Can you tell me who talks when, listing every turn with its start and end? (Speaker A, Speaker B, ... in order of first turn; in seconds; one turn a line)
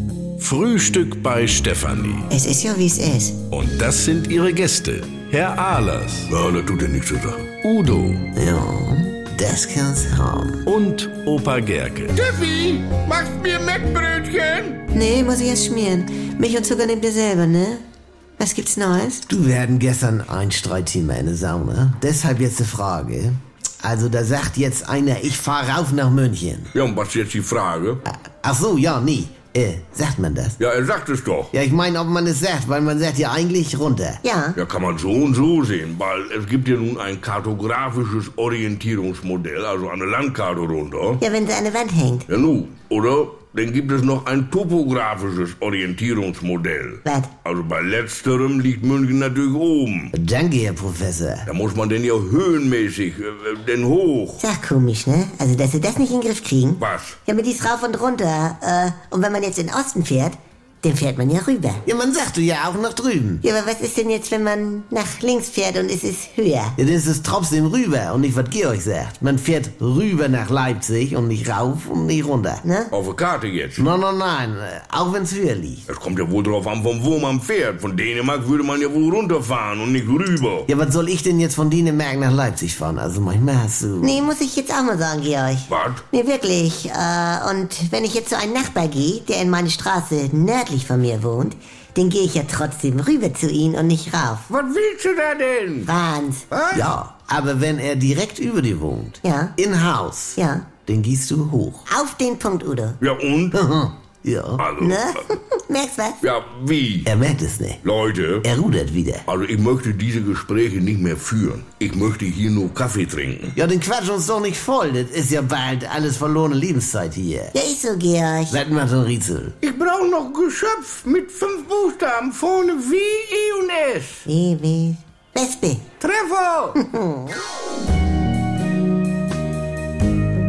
Speaker A: 0.4-2.3
Speaker B: 2.3-3.4
Speaker A: 3.5-6.3
Speaker C: 6.3-7.7
Speaker A: 7.6-8.3
Speaker D: 8.3-10.6
Speaker A: 10.7-12.2
Speaker C: 12.1-14.8
Speaker B: 14.9-17.8
Speaker B: 18.4-19.2
Speaker D: 19.3-26.7
Speaker C: 26.7-28.0
Speaker D: 28.1-30.6
Speaker C: 30.6-31.5
Speaker D: 31.5-34.2
Speaker B: 34.2-34.6
Speaker C: 34.5-41.2
Speaker B: 41.2-42.2
Speaker C: 42.3-50.1
Speaker D: 50.1-51.5
Speaker C: 51.5-54.4
Speaker B: 54.4-61.8
Speaker C: 56.8-57.2
Speaker D: 61.9-63.4
Speaker B: 63.4-66.7
Speaker D: 66.8-72.6
Speaker B: 72.6-72.9
Speaker C: 72.9-73.8
Speaker D: 73.8-75.8
Speaker C: 75.9-80.7
Speaker D: 80.7-84.2
Speaker B: 84.0-94.5
Speaker C: 85.7-86.0
Speaker C: 94.5-95.9
Speaker B: 95.8-96.4
Speaker C: 96.5-96.9
Speaker D: 96.7-101.8
Speaker B: 99.2-99.5
Speaker B: 100.4-100.7
Speaker B: 101.9-103.0
Speaker C: 103.0-103.6
Speaker D: 103.5-104.6
Speaker C: 104.6-105.2
Speaker B: 104.8-106.2
Speaker C: 106.2-107.1
Speaker D: 107.0-107.8
Speaker C: 107.8-108.4
Speaker D: 108.4-109.2
Speaker C: 109.3-113.5
Speaker D: 113.5-117.5
Speaker B: 117.5-118.6
Speaker D: 118.5-119.5
Speaker C: 119.6-124.2
Speaker B: 124.3-125.8
Speaker C: 126.0-126.8
Speaker B: 126.8-127.4